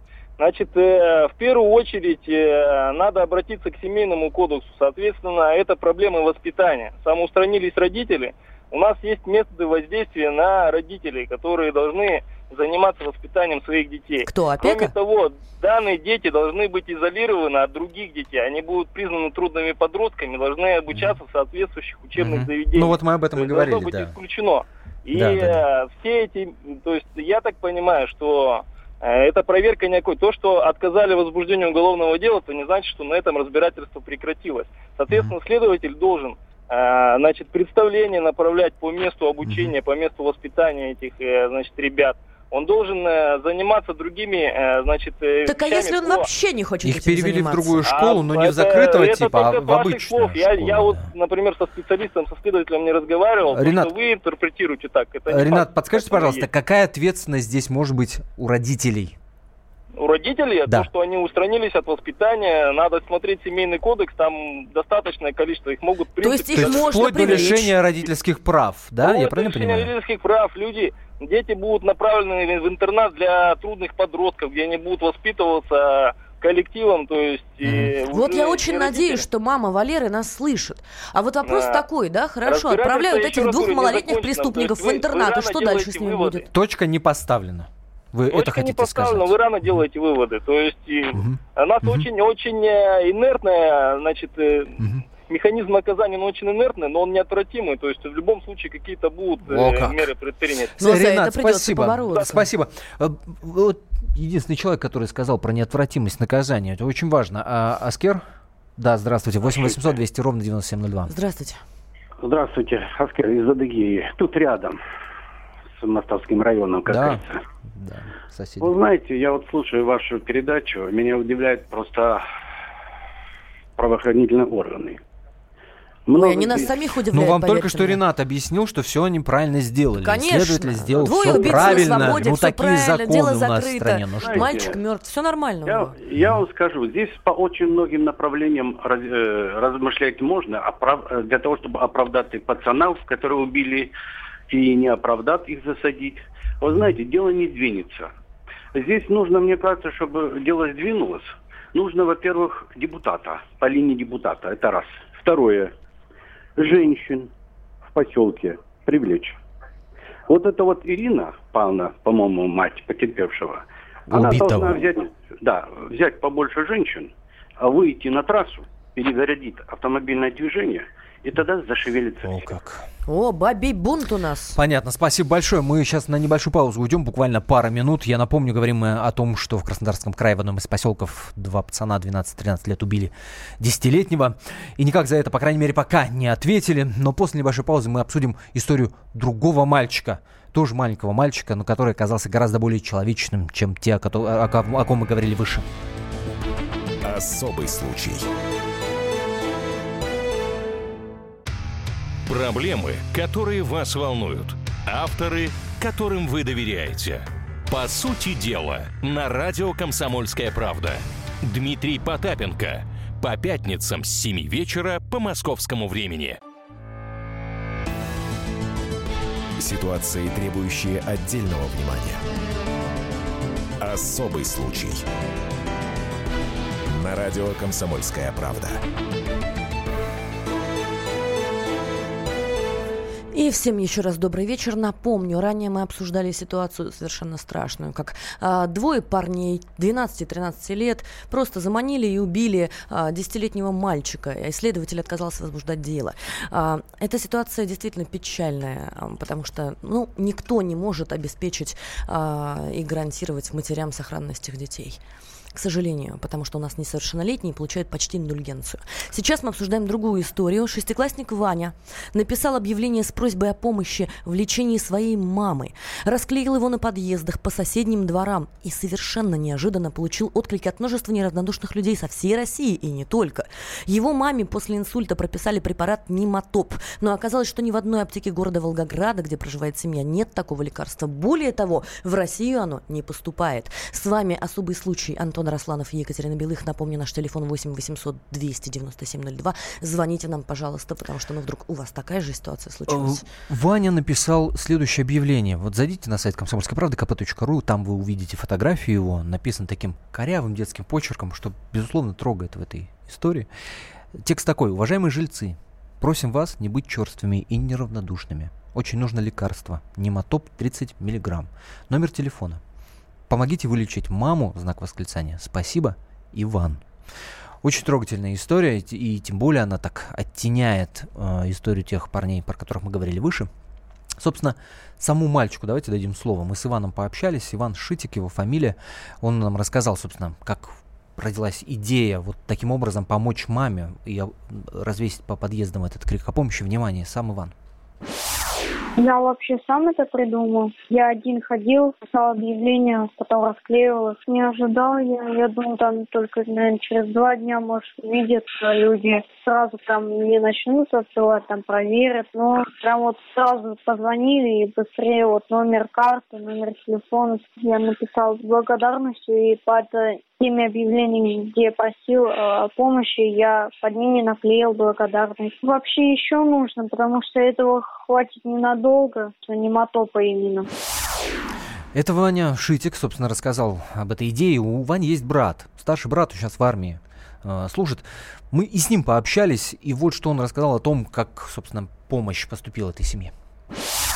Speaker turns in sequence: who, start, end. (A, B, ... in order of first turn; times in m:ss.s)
0:00.4-0:46.3 A
0:14.3-0:14.9 B
0:20.9-0:21.2 C
0:22.2-0:24.2 C
0:25.1-0:25.6 C
0:39.4-0:39.7 C
0:45.4-0:47.9 B
0:46.8-0:51.1 C
0:47.8-0:56.5 A
0:53.5-0:53.9 C
0:55.3-0:59.2 C
1:00.0-1:07.6 A
1:06.2-1:07.8 B
1:06.5-1:09.9 C
1:09.0-1:19.2 A
1:17.6-1:18.0 C
1:18.0-1:26.5 B
1:21.4-1:21.8 A
1:22.5-1:26.5 A
1:26.5-1:29.8 C
1:28.3-1:40.8 A
1:31.1-1:32.1 C
1:34.8-1:35.0 C
1:39.4-1:40.1 C
1:40.8-1:48.2 C
1:40.8-1:42.5 B
1:48.8-1:51.1 C
1:51.1-1:51.6 B
1:52.2-1:54.8 D
1:55.8-1:57.4 D
1:56.9-1:58.7 C
1:58.6-2:02.2 D
2:03.8-2:05.0 D
2:06.1-2:06.7 D
2:06.1-2:08.0 B
2:07.1-2:14.6 C
2:10.0-2:16.0 B
2:11.0-2:12.3 D
2:14.2-2:14.8 D
2:15.7-2:23.9 D
2:24.5-2:28.1 D
2:28.7-2:35.7 D
2:36.6-2:37.3 D
2:37.9-2:39.4 D
2:40.3-2:52.5 D
2:44.1-2:44.9 C
2:52.2-2:52.8 C
2:53.1-2:54.6 B
2:54.6-3:15.7 C
3:17.0-3:18.3 E
3:22.3-3:36.4 F
3:39.6-3:42.2 E
3:43.8-3:45.0 E
3:46.9-3:48.8 E
3:53.3-4:15.0 B
4:15.5-4:53.3 B
4:52.9-5:03.5 C
5:04.1-5:12.6 C
5:13.3-5:16.8 C
5:17.6-5:23.5 C
5:24.2-5:37.6 C
5:39.0-6:10.7 G
6:11.9-6:23.3 C